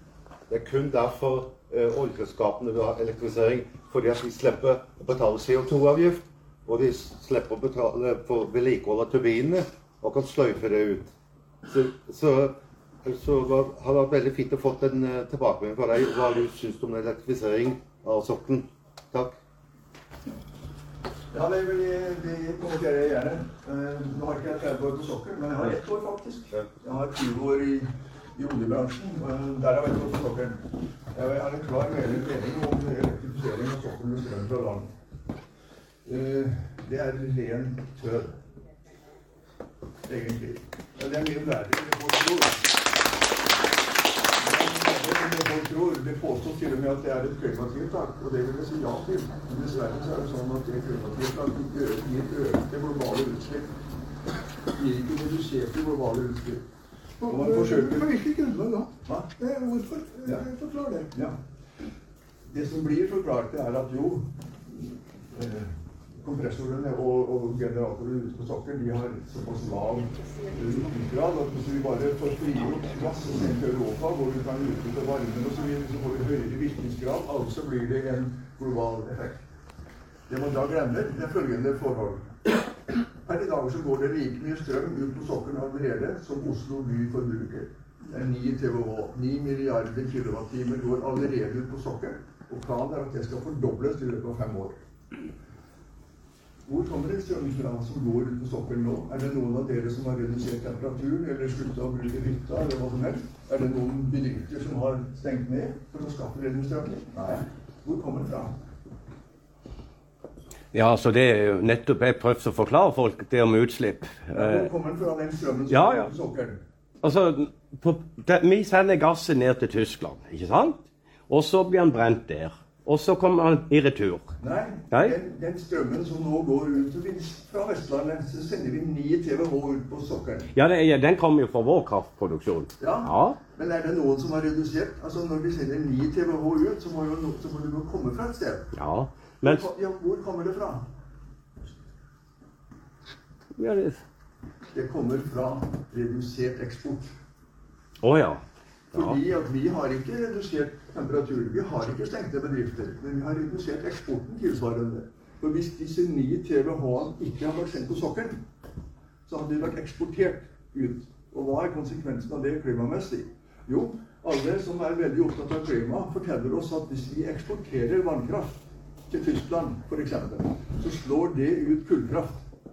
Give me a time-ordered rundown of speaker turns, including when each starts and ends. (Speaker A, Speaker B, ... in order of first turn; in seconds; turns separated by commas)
Speaker A: 0.5-11.1, Speaker A: 11.7-19.4, Speaker B: 21.3-34.9, Speaker B: 36.0-38.4, Speaker B: 40.0-42.7, Speaker B: 44.4-53.7, Speaker B: 54.7-56.7, Speaker C: 57.2-61.1, Speaker B: 57.3-58.1, Speaker B: 59.0-59.3, Speaker B: 61.1-61.4, Speaker B: 62.5-79.4, Speaker B: 80.3-82.5, Speaker B: 83.2-94.8, Speaker B: 96.7-108.5, Speaker D: 110.7-114.7, Speaker B: 114.3-116.6, Speaker D: 115.7-116.1, Speaker D: 117.0-124.3, Speaker B: 124.4-130.5, Speaker D: 130.5-133.4, Speaker B: 132.8-138.7, Speaker D: 138.7-139.7, Speaker B: 139.4-140.9, Speaker D: 143.6-144.0, Speaker B: 144.7-147.1, Speaker D: 148.0-148.4, Speaker D: 148.9-149.2, Speaker B: 148.9-158.4, Speaker B: 159.2-172.4